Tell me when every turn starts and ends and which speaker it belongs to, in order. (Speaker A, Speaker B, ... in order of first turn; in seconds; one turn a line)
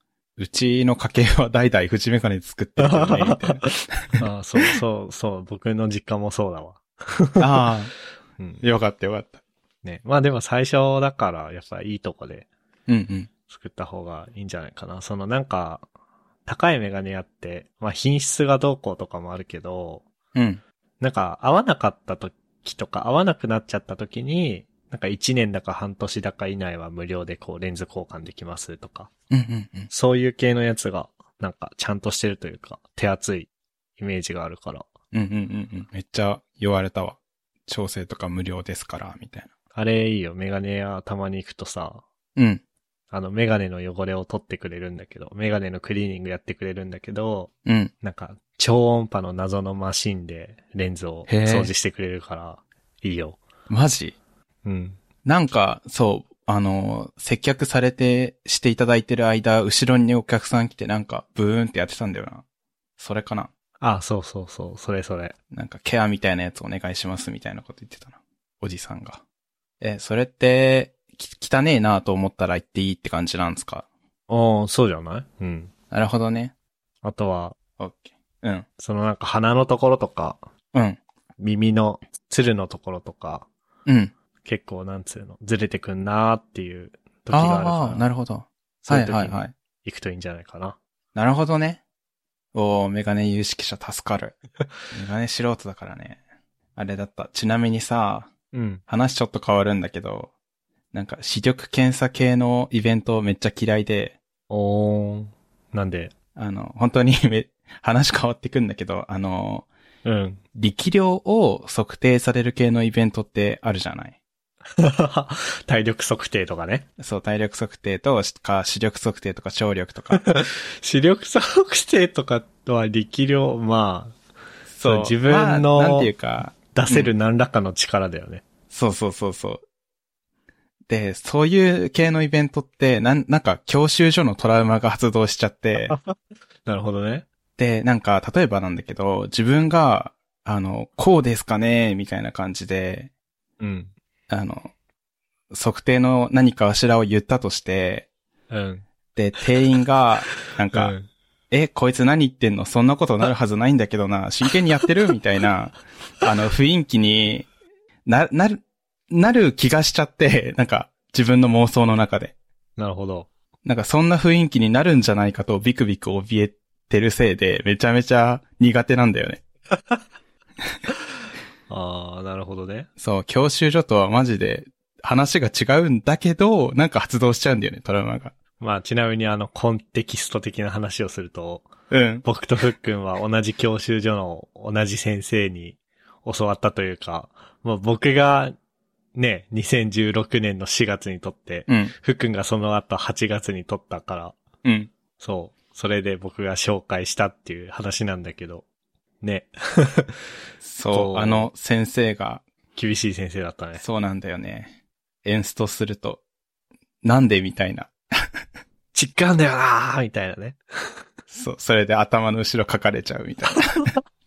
Speaker A: 0.4-4.7
Speaker B: 2.8-3.6
Speaker B: 4.2-7.7
Speaker A: 7.4-7.9
Speaker B: 8.4-8.6
Speaker A: 8.6-9.4
Speaker B: 9.8-12.5
Speaker A: 12.9-13.3
Speaker B: 13.5-15.8
Speaker B: 16.4-20.0
Speaker A: 20.3-20.6
Speaker B: 21.0-29.1
Speaker A: 29.3-29.9
Speaker B: 29.9-34.9
Speaker A: 35.1-39.5
Speaker B: 39.7-42.0
Speaker A: 42.4-42.6
Speaker B: 43.1-53.4
Speaker A: 47.6-47.9
Speaker A: 51.3-51.7
Speaker A: 53.7-54.1
Speaker B: 54.6-55.0
Speaker A: 55.2-62.4
Speaker A: 63.0-63.5
Speaker B: 63.8-65.3
Speaker A: 65.5-69.2
Speaker A: 69.8-73.8
Speaker B: 74.3-75.7
Speaker A: 75.9-76.5
Speaker B: 77.0-77.5
Speaker A: 77.8-78.7
Speaker B: 78.8-80.4
Speaker A: 80.7-81.0
Speaker B: 81.4-83.5
Speaker A: 83.8-84.1
Speaker B: 84.4-88.0
Speaker A: 87.3-89.5
Speaker B: 88.8-90.8
Speaker A: 91.1-91.8
Speaker A: 92.5-94.3
Speaker A: 94.9-96.2
Speaker A: 96.8-98.3
Speaker B: 98.5-98.8
Speaker A: 98.9-100.3
Speaker A: 100.9-104.2
Speaker B: 104.5-106.1
Speaker A: 106.3-109.7
Speaker B: 110.0-110.4
Speaker A: 110.5-114.2
Speaker B: 114.8-116.8
Speaker A: 117.0-120.2
Speaker B: 120.1-124.1
Speaker A: 124.7-127.1
Speaker B: 124.8-126.1
Speaker B: 126.7-128.4
Speaker A: 128.7-129.6
Speaker A: 130.9-135.9
Speaker B: 135.9-136.1
Speaker B: 136.7-137.2
Speaker A: 137.6-143.1
Speaker B: 143.6-143.9
Speaker A: 144.3-144.7
Speaker A: 145.5-148.1
Speaker B: 148.5-148.8
Speaker A: 149.2-150.9
Speaker B: 150.7-151.1
Speaker A: 151.5-157.5
Speaker A: 158.1-162.3
Speaker B: 162.8-163.3
Speaker A: 163.6-169.4
Speaker B: 171.7-172.9
Speaker A: 173.0-178.3
Speaker B: 178.6-181.7
Speaker A: 181.9-182.2
Speaker B: 182.2-188.5
Speaker B: 189.1-194.3
Speaker A: 191.7-191.9
Speaker A: 194.6-194.9
Speaker B: 195.2-198.6
Speaker B: 199.2-200.1
Speaker A: 200.6-202.4
Speaker B: 200.9-201.5
Speaker B: 202.7-203.8
Speaker A: 203.8-206.2
Speaker A: 207.0-208.4
Speaker B: 208.9-210.9
Speaker A: 211.3-213.9